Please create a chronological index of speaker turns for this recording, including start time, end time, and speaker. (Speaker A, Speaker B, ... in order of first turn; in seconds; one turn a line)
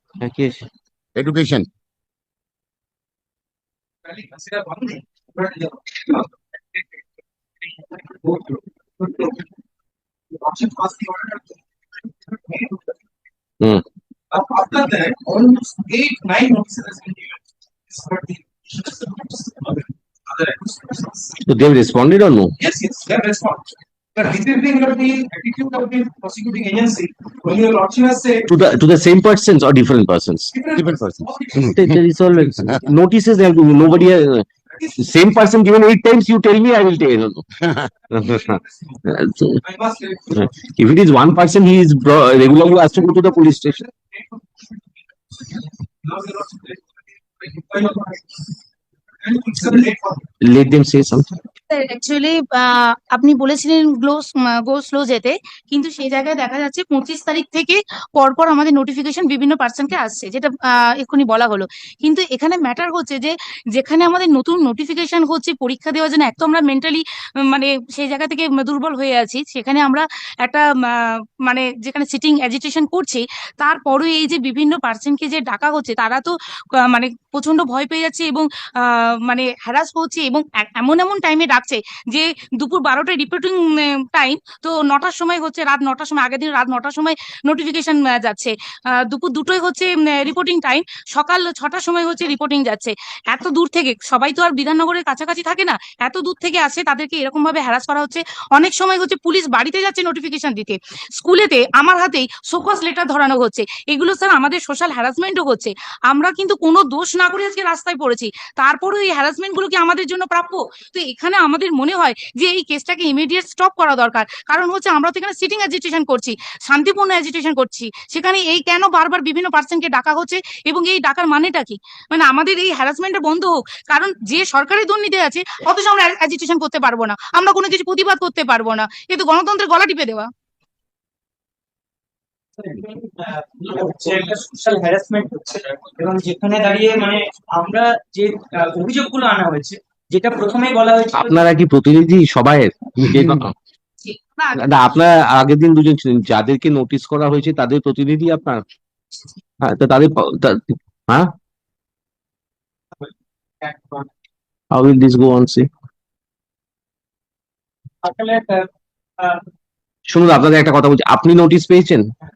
Speaker A: 0.2-0.7
Speaker B: 1.1-1.7
Speaker C: 4.0-7.0
Speaker C: 7.9-9.4
Speaker C: 10.3-11.6
Speaker C: 12.3-12.9
Speaker C: 14.3-21.4
Speaker A: 21.4-22.5
Speaker C: 22.6-28.5
Speaker A: 28.5-30.5
Speaker C: 30.5-31.7
Speaker B: 30.8-32.8
Speaker A: 31.6-34.5
Speaker C: 34.7-35.2
Speaker A: 35.0-37.4
Speaker B: 37.6-37.9
Speaker C: 38.1-39.0
Speaker A: 38.1-39.6
Speaker C: 39.6-40.7
Speaker A: 40.4-43.8
Speaker C: 42.9-44.7
Speaker C: 45.4-46.8
Speaker C: 47.4-48.4
Speaker C: 49.2-50.2
Speaker A: 50.4-51.3
Speaker D: 51.7-130.3
Speaker E: 132.6-141.4
Speaker C: 133.9-134.5
Speaker A: 141.1-143.5
Speaker D: 144.0-144.7
Speaker A: 144.5-148.6
Speaker A: 149.6-151.3
Speaker E: 153.6-154.1
Speaker A: 154.7-155.7
Speaker E: 158.0-158.7
Speaker E: 159.2-159.4
Speaker A: 160.1-162.1